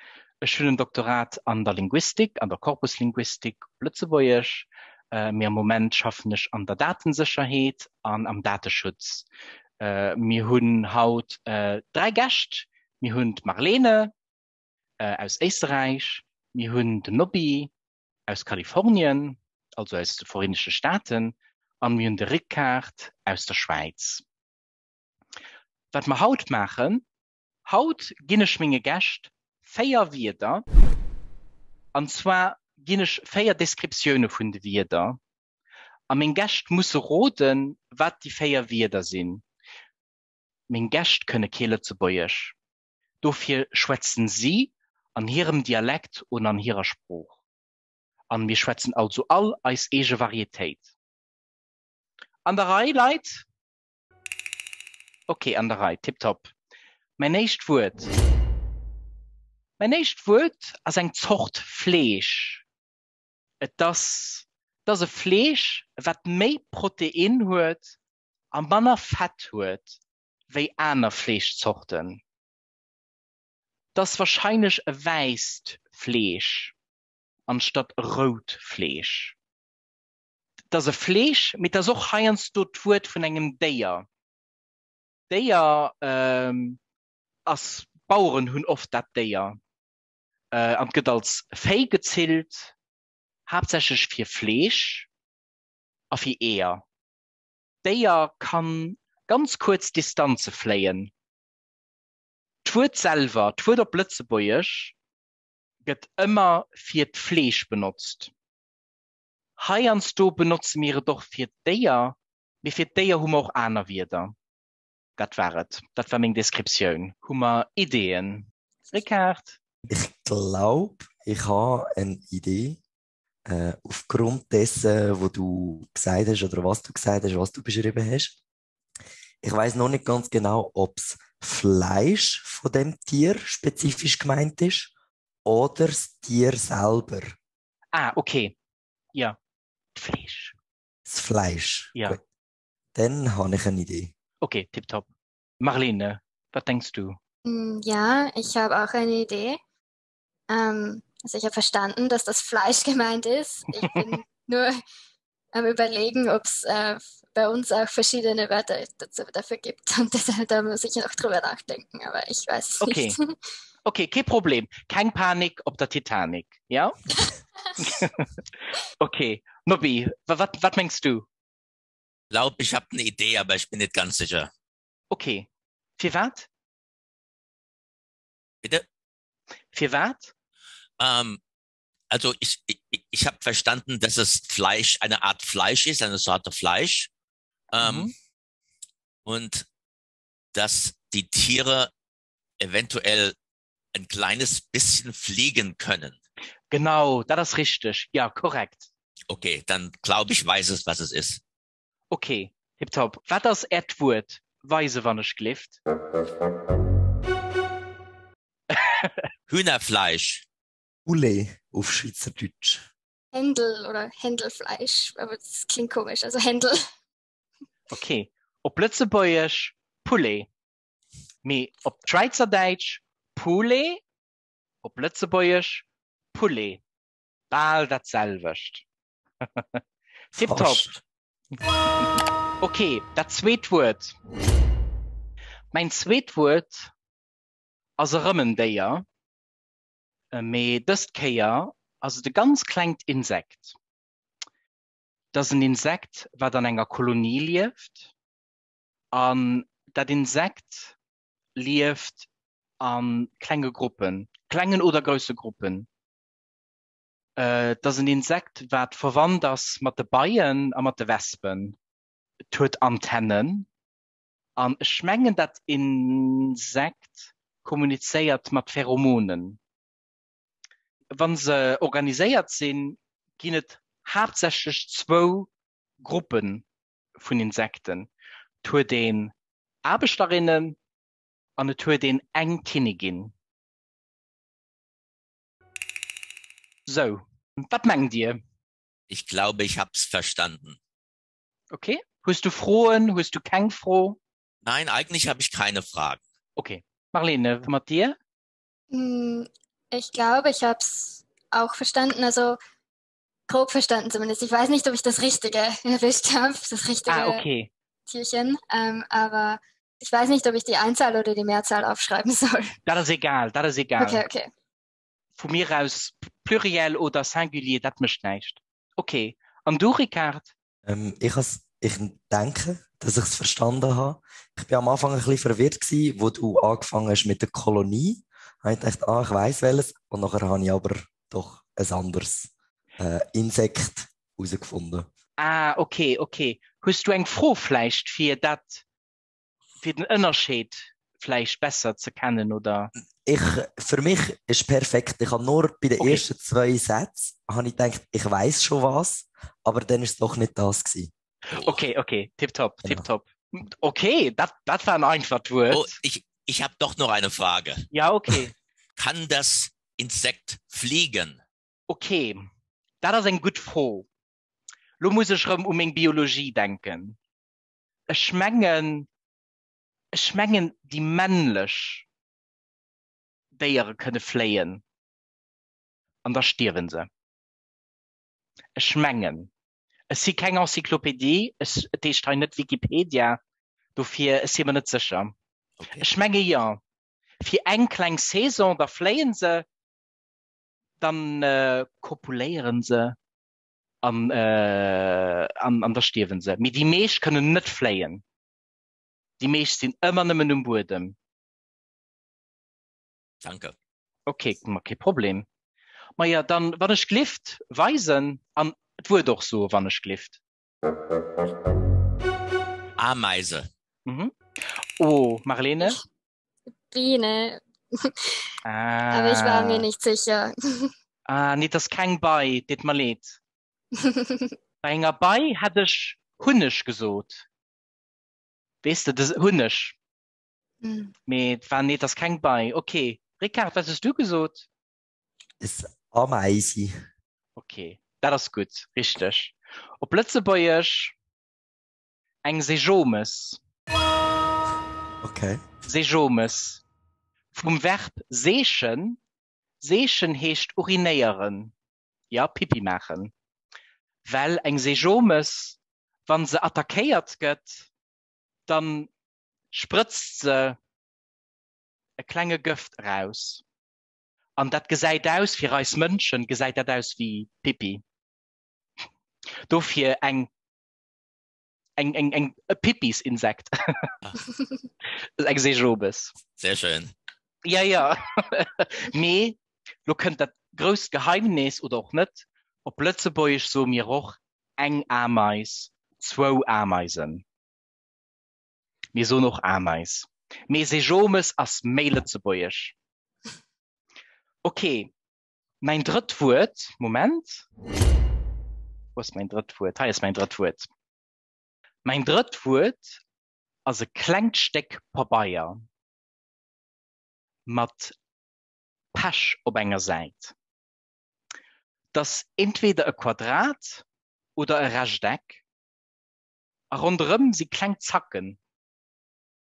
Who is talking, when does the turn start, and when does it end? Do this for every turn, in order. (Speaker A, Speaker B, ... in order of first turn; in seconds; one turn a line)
Speaker A: 0.4-9.3
Speaker A: 9.8-14.1
Speaker A: 15.0-17.7
Speaker A: 18.3-24.2
Speaker A: 25.9-27.0
Speaker A: 27.6-30.6
Speaker A: 31.9-35.2
Speaker A: 36.1-39.4
Speaker A: 40.7-42.5
Speaker A: 43.2-47.3
Speaker A: 48.3-50.9
Speaker A: 52.5-53.5
Speaker A: 55.3-56.5
Speaker A: 57.2-58.1
Speaker A: 59.8-62.6
Speaker A: 63.6-67.9
Speaker A: 68.5-70.0
Speaker A: 70.5-72.2
Speaker A: 73.9-76.7
Speaker A: 77.5-79.3
Speaker A: 80.7-84.0
Speaker A: 85.3-86.8
Speaker A: 87.5-89.6
Speaker A: 90.5-92.7
Speaker A: 93.5-95.1
Speaker A: 96.1-96.8
Speaker A: 97.8-101.1
Speaker A: 102.6-104.9
Speaker A: 105.8-108.3
Speaker A: 109.6-114.3
Speaker A: 115.2-119.6
Speaker B: 119.9-122.8
Speaker B: 123.5-128.3
Speaker B: 129.4-134.9
Speaker B: 135.4-137.3
Speaker A: 137.9-138.5
Speaker A: 139.9-140.5
Speaker B: 141.1-142.2
Speaker B: 142.9-144.1
Speaker A: 144.4-145.1
Speaker A: 145.6-147.2
Speaker C: 147.4-149.6
Speaker C: 150.5-154.8
Speaker C: 155.5-163.4
Speaker A: 162.8-163.2
Speaker A: 163.8-167.0
Speaker A: 167.8-168.3
Speaker A: 169.0-171.2
Speaker D: 172.3-174.5
Speaker A: 175.1-176.5
Speaker A: 179.7-180.3
Speaker D: 181.0-181.4
Speaker D: 182.1-187.1
Speaker D: 187.7-188.1
Speaker A: 187.8-188.1
Speaker D: 189.2-189.6
Speaker D: 190.5-191.9
Speaker D: 192.6-193.3
Speaker D: 193.9-196.2
Speaker A: 196.7-198.9
Speaker D: 199.3-201.4
Speaker A: 202.1-205.8
Speaker A: 208.7-209.2
Speaker D: 209.5-210.4
Speaker B: 211.1-212.8
Speaker C: 213.3-216.8
Speaker A: 217.9-220.5
Speaker A: 221.4-224.0
Speaker A: 224.8-226.8
Speaker A: 227.5-228.8
Speaker A: 229.4-229.8
Speaker A: 230.3-230.8
Speaker B: 230.3-231.0
Speaker A: 232.6-234.1
Speaker A: 235.7-236.9
Speaker A: 238.0-239.0
Speaker A: 240.3-243.7
Speaker A: 245.3-248.1
Speaker A: 249.1-250.9
Speaker A: 251.6-252.3
Speaker A: 252.8-255.9
Speaker A: 257.4-261.8
Speaker A: 262.5-263.7
Speaker A: 264.6-269.6
Speaker A: 271.1-275.5
Speaker A: 276.0-276.6
Speaker A: 277.2-278.1
Speaker A: 278.6-279.3
Speaker A: 279.8-280.8
Speaker A: 281.6-283.3
Speaker A: 286.9-288.4
Speaker D: 289.1-290.8
Speaker A: 291.7-294.2
Speaker D: 294.6-296.2
Speaker A: 296.6-298.1
Speaker C: 298.9-302.6
Speaker C: 303.5-307.4
Speaker A: 307.1-307.7
Speaker C: 308.1-312.7
Speaker A: 312.9-314.2
Speaker C: 314.0-314.5
Speaker A: 315.4-320.5
Speaker B: 320.9-335.1
Speaker A: 335.4-338.8
Speaker A: 339.8-342.9
Speaker B: 343.2-351.1
Speaker A: 346.0-346.2
Speaker D: 351.5-351.8
Speaker A: 351.5-355.9
Speaker D: 355.7-357.9
Speaker A: 357.9-358.5
Speaker D: 358.9-361.4
Speaker A: 361.9-362.4
Speaker A: 363.0-364.1
Speaker A: 365.0-367.2
Speaker A: 368.1-369.1
Speaker A: 370.1-372.0
Speaker A: 373.6-374.8
Speaker A: 376.2-377.1
Speaker A: 378.8-379.5
Speaker A: 380.1-383.4
Speaker A: 383.9-385.3
Speaker D: 385.8-386.1
Speaker A: 385.9-386.8
Speaker A: 387.4-389.6
Speaker A: 391.0-393.1
Speaker A: 394.0-398.2
Speaker A: 399.4-401.1
Speaker D: 403.4-403.7
Speaker A: 404.3-405.4
Speaker A: 406.2-410.4
Speaker D: 413.0-413.7
Speaker A: 414.1-414.3
Speaker A: 415.0-416.0
Speaker C: 416.9-418.4
Speaker A: 418.6-419.9
Speaker C: 419.1-420.9
Speaker A: 421.3-423.4
Speaker C: 423.9-424.6
Speaker A: 424.8-427.4
Speaker A: 428.8-429.9
Speaker C: 430.8-431.1
Speaker A: 431.3-434.7
Speaker B: 435.6-436.9
Speaker A: 437.6-441.1
Speaker A: 442.4-443.6
Speaker B: 445.2-445.6
Speaker A: 445.8-446.8
Speaker A: 447.5-449.2
Speaker A: 449.8-451.7
Speaker A: 452.3-453.3
Speaker A: 454.2-457.9
Speaker A: 458.7-459.1
Speaker A: 459.7-460.8
Speaker A: 462.2-463.6
Speaker A: 464.6-468.0
Speaker A: 469.7-470.5
Speaker A: 472.0-473.7
Speaker A: 475.4-476.3
Speaker D: 476.6-477.1
Speaker A: 477.6-487.4
Speaker A: 489.1-492.9
Speaker A: 494.6-495.1
Speaker A: 495.8-497.6
Speaker A: 499.1-500.9
Speaker A: 502.0-503.2
Speaker A: 503.9-505.8
Speaker A: 507.6-508.1
Speaker A: 509.1-510.5
Speaker A: 512.1-514.0
Speaker A: 514.6-515.6
Speaker A: 516.9-518.6